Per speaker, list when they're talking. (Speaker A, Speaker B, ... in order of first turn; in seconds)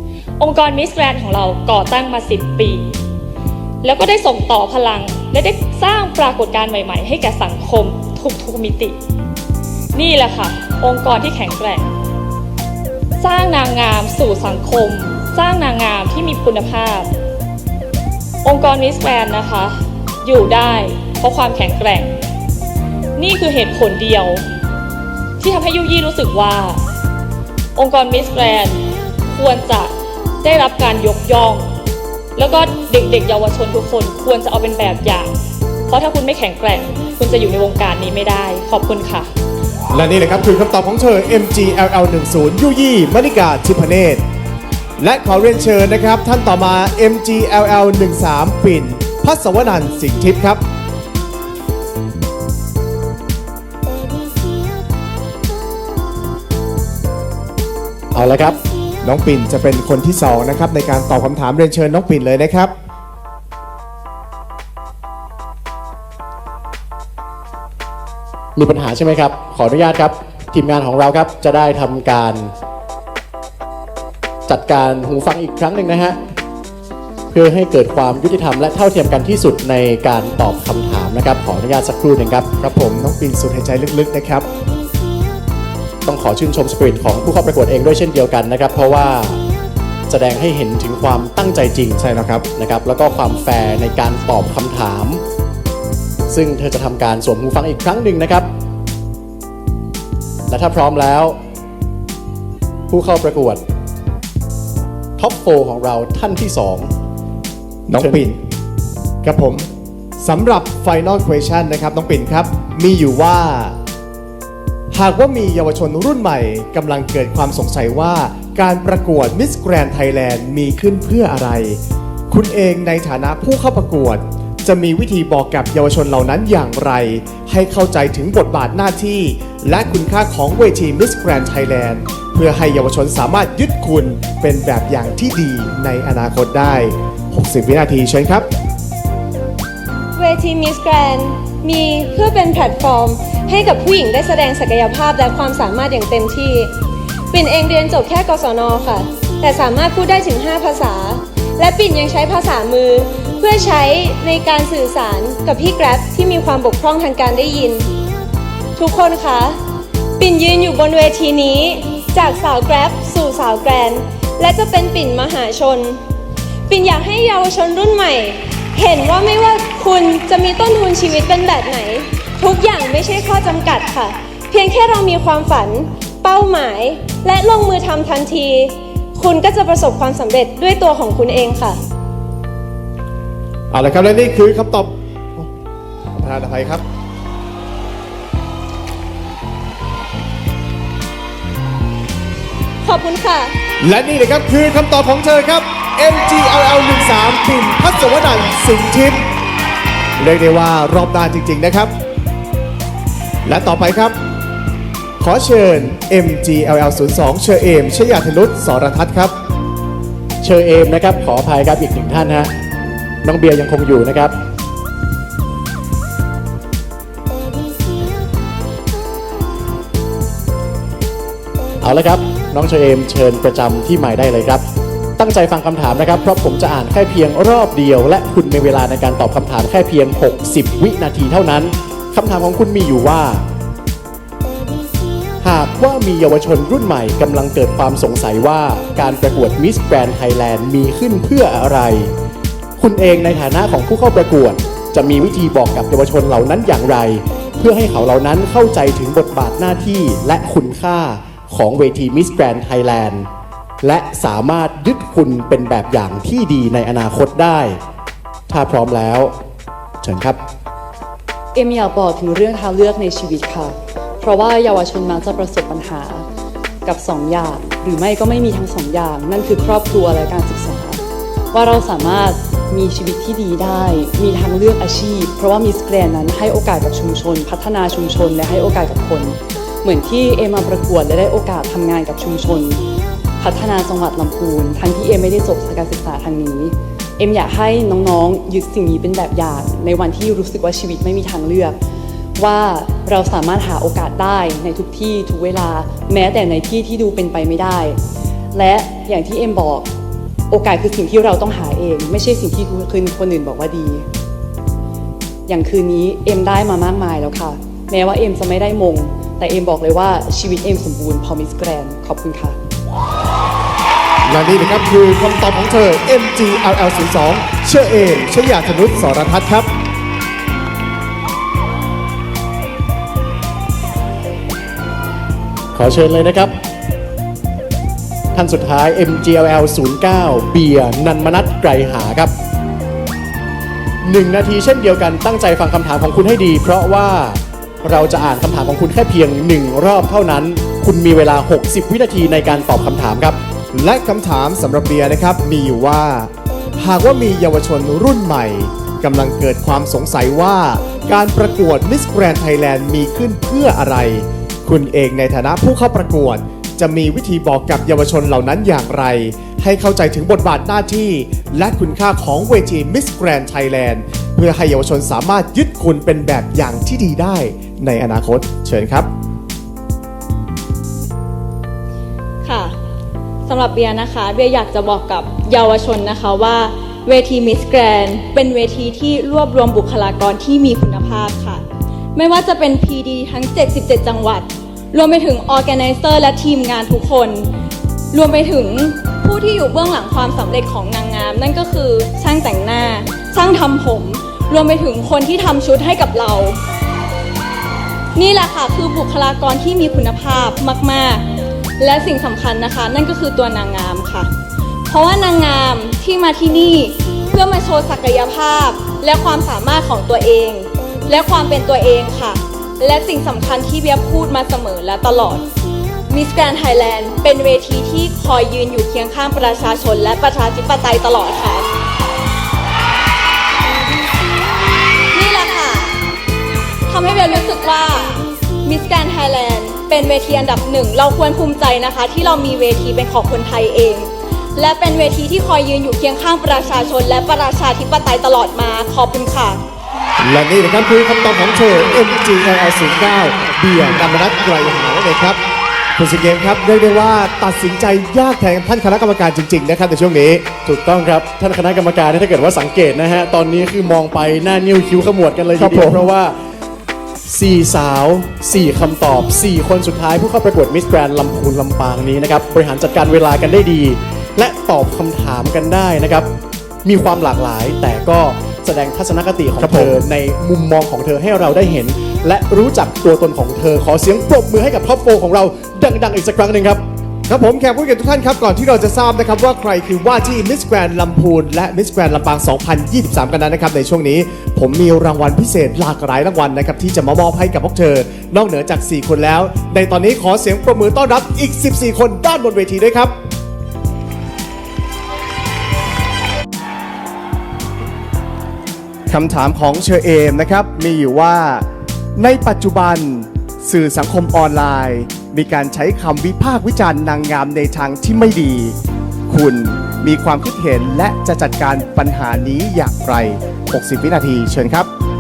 Speaker A: 0.4-2.9, 3.8-9.0, 9.9-11.9, 13.2-17.1, 18.4-22.1, 23.2-24.4, 25.4-26.8, 27.8-29.9, 30.4-31.7, 32.4-35.3, 35.9-39.3
Speaker B: 39.9-44.2, 45.0-50.6, 59.0-62.7, 82.6-84.5, 92.0-92.5, 107.9-108.4, 109.2-109.7, 110.2-113.8, 114.9-138.5, 183.7-185.5, 186.2-186.8, 193.8-199.2, 200.2-201.9, 203.4-204.2, 205.2-209.3, 314.3-319.7, 343.7-369.1, 440.2-445.4, 446.0-450.5, 455.6-456.1, 469.6-470.0, 477.3-493.1, 499.1-501.7, 502.2-508.8, 509.3-514.9
Speaker C: 58.1-58.6, 68.6-72.5, 74.5-76.2, 77.3-82.5, 86.1-89.4, 90.1-92.0, 92.5-95.2, 96.3-98.5, 100.5-101.4, 102.9-103.6, 105.2-106.9, 210.4-212.5, 213.2-214.3, 221.8-224.6, 225.2-233.4, 235.4-242.1, 242.8-253.3, 253.8-257.8, 258.5-259.3, 260.0-260.4, 325.8-326.5, 328.3-332.3, 334.0-343.4, 450.6-456.3, 457.3-466.3, 466.9-476.8
Speaker D: 140.4-146.6, 147.3-157.9, 158.8-159.4, 160.2-165.9, 166.7-173.9, 176.2-178.5, 179.4-180.3
Speaker E: 192.8-193.5, 372.4-372.7, 373.5-381.6, 382.1-387.5, 388.1-396.6, 398.2-401.2, 401.8-404.2, 404.9-415.4, 416.1-421.6, 425.1-425.9, 426.9-428.0, 428.7-439.5
Speaker F: 261.5-266.2, 266.9-271.0, 271.5-282.8, 283.4-291.8, 292.4-298.0, 298.5-299.9, 300.5-304.1, 305.5-312.6